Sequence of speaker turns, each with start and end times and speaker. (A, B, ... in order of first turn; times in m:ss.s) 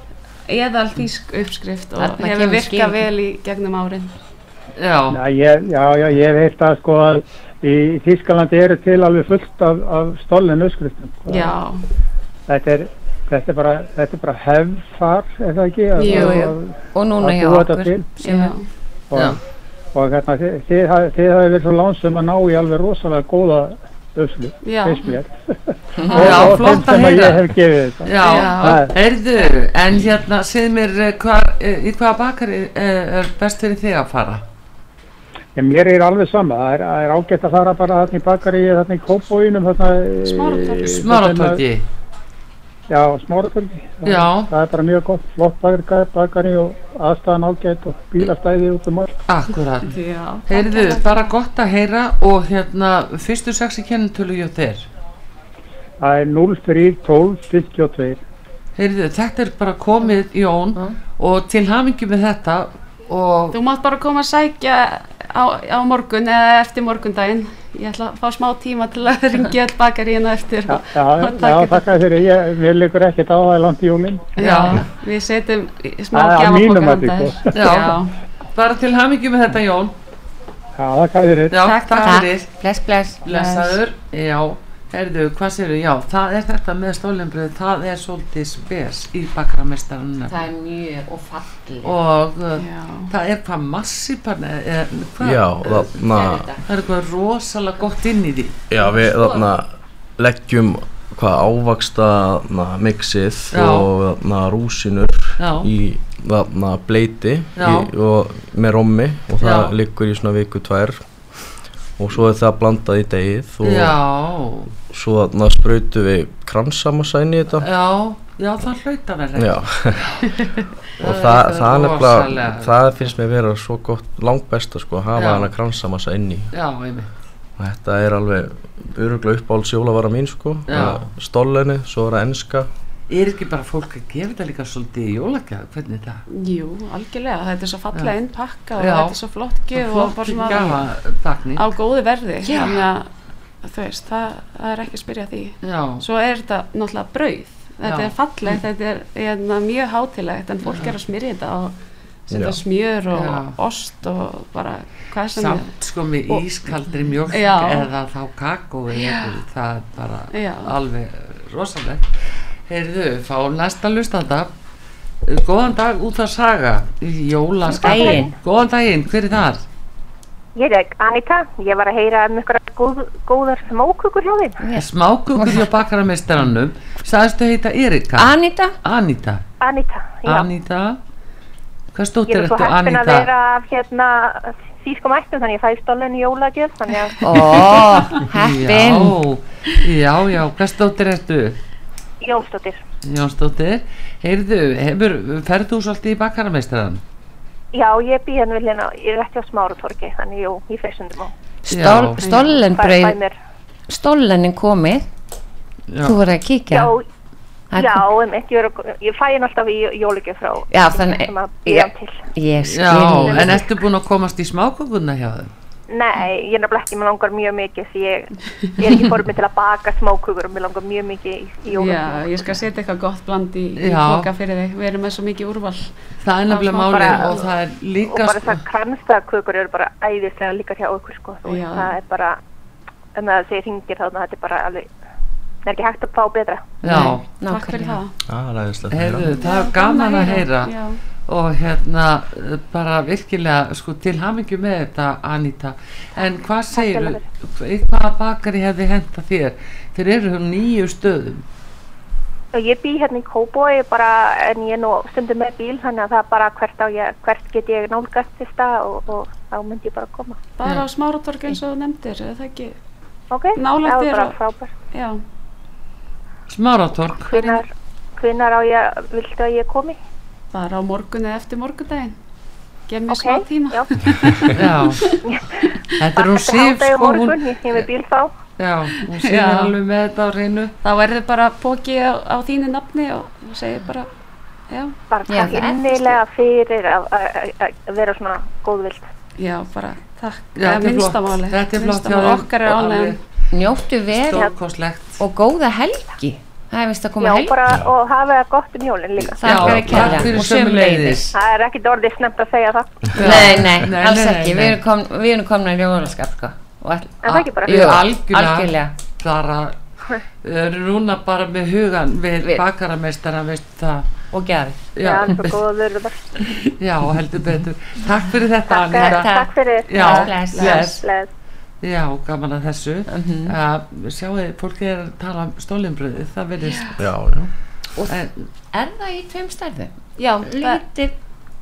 0:00.5-0:04.1 A
0:02.0-0:03.1 B
0:04.8-0:05.2 C
0:05.1-0:11.6 D
0:11.3-0:11.8 A
0:12.5-0:18.2 D
0:16.0-0:16.5 A
0:16.0-0:18.5 B
0:18.2-0:18.7 A
0:19.9-0:25.3 D
0:24.6-0:25.2 A
0:26.0-0:26.8 B
0:26.0-0:28.9 D
0:26.1-0:34.4 C
0:28.2-0:28.8 A
0:35.6-0:41.6 D
0:40.3-0:40.8 A
0:40.8-0:41.8 C
0:42.9-0:49.2 D
0:44.0-0:44.5 C
0:49.3-0:54.9 C
0:49.8-0:51.3 A
0:56.0-0:58.2 D
0:58.8-1:03.6 C
1:03.5-1:11.8 A
1:10.7-1:14.3 D
1:14.4-1:18.1 A
1:14.4-1:14.8 C
1:16.1-1:17.7 D
1:17.5-1:20.0 C
1:20.8-1:21.5 D
1:21.5-1:22.5 C
1:21.6-1:22.2 A
1:22.0-1:23.2 B
1:23.2-1:30.4 C
1:23.3-1:23.8 A
1:30.3-1:31.9 B
1:31.8-1:35.9 C
1:32.6-1:33.1 A
1:35.2-1:36.5 E
1:36.1-1:36.6 B
1:36.6-1:38.6 C
1:38.7-1:39.7 E
1:38.8-1:39.5 B
1:40.2-1:51.0 E
1:43.5-1:43.9 C
1:45.4-1:45.7 C
1:47.6-1:47.9 C
1:49.4-1:49.8 C
1:52.0-1:54.0 E
1:53.6-1:54.7 C
1:54.9-1:57.7 E
1:57.6-2:00.5 C
1:59.4-2:00.0 E
2:00.3-2:00.6 A
2:01.0-2:03.1 C
2:01.0-2:06.5 E
2:05.2-2:05.5 C
2:06.5-2:07.1 C
2:07.6-2:12.7 E
2:10.7-2:11.1 C
2:13.1-2:16.2 C
2:16.3-2:20.8 A
2:18.8-2:19.2 C
2:19.7-2:21.7 C
2:21.6-2:23.1 A
2:23.6-2:31.7 A
2:25.6-2:26.0 C
2:27.8-2:28.6 C
2:30.7-2:31.0 C
2:32.3-2:35.7 A
2:32.3-2:32.6 E
2:33.1-2:33.6 C
2:35.4-2:42.1 C
2:37.3-2:37.9 A
2:38.9-2:39.4 A
2:40.3-2:40.7 A
2:42.7-2:44.5 C
2:45.3-2:49.6 C
2:47.7-2:48.3 B
2:47.8-2:48.3 F
2:50.6-2:54.6 F
2:54.6-2:55.7 B
2:54.8-2:59.4 C
2:58.2-2:58.8 B
2:59.6-3:00.5 F
3:00.2-3:01.0 C
3:01.9-3:03.3 C
3:02.3-3:07.2 F
3:07.2-3:09.2 B
3:07.4-3:11.6 C
3:12.2-3:12.8 F
3:13.0-3:17.0 C
3:17.7-3:21.3 F
3:21.7-3:23.2 B
3:21.7-3:22.2 C
3:22.2-3:22.5 A
3:22.4-3:23.4 F
3:23.9-3:25.1 B
3:25.9-3:26.2 C
3:26.0-3:26.9 B
3:26.7-3:27.0 F
3:27.7-3:28.0 B
3:27.8-3:32.2 F
3:30.7-3:33.7 B
3:32.7-3:35.5 C
3:33.2-3:33.6 F
3:35.9-3:42.6 F
3:41.7-3:45.9 A
3:43.8-3:44.3 C
3:46.2-3:48.6 C
3:46.5-3:47.2 A
3:46.8-3:47.4 F
3:48.1-3:52.4 F
3:51.4-3:51.9 A
3:53.2-3:54.9 F
3:55.7-3:56.6 F
3:56.8-3:57.3 C
3:56.9-3:58.0 B
3:56.9-3:58.2 A
3:58.3-3:59.4 E
3:58.9-4:00.8 C
3:59.4-4:01.0 A
4:01.3-4:11.4 C
4:06.7-4:07.2 F
4:12.5-4:20.4 F
4:20.6-4:22.8 A
4:23.3-4:24.7 F
4:23.6-4:24.3 A
4:24.9-4:25.2 A
4:26.5-4:27.4 C
4:27.3-4:27.7 F
4:28.2-4:30.0 F
4:30.5-4:32.2 A
4:32.9-4:35.1 A
4:33.1-4:33.9 F
4:34.5-4:35.1 C
4:35.2-4:38.3 F
4:36.0-4:37.9 C
4:38.6-4:40.8 C
4:38.9-4:39.8 A
4:40.8-4:44.1 A
4:44.7-4:45.0 A
4:45.1-4:49.0 F
4:45.3-4:46.2 B
4:49.4-4:53.2 A
4:50.6-4:53.2 C
4:53.5-4:54.5 B
4:54.1-4:55.2 C
4:55.2-4:57.6 B
4:57.2-4:59.6 F
4:59.3-5:01.3 B
4:59.4-5:01.3 C
5:01.3-5:03.0 F
5:03.1-5:04.8 C
5:03.2-5:08.9 B
5:07.2-5:07.9 F
5:07.6-5:09.8 C
5:10.4-5:14.1 C
5:14.3-5:14.8 B
5:15.0-5:15.6 C
5:15.0-5:16.3 F
5:16.4-5:21.1 C
5:18.7-5:21.3 F
5:19.0-5:20.9 B
5:21.8-5:27.0 C
5:23.1-5:23.5 B
5:27.0-5:27.5 E
5:28.0-5:28.2 B
5:28.1-5:28.4 C
5:28.7-5:31.1 B
5:30.2-5:30.8 A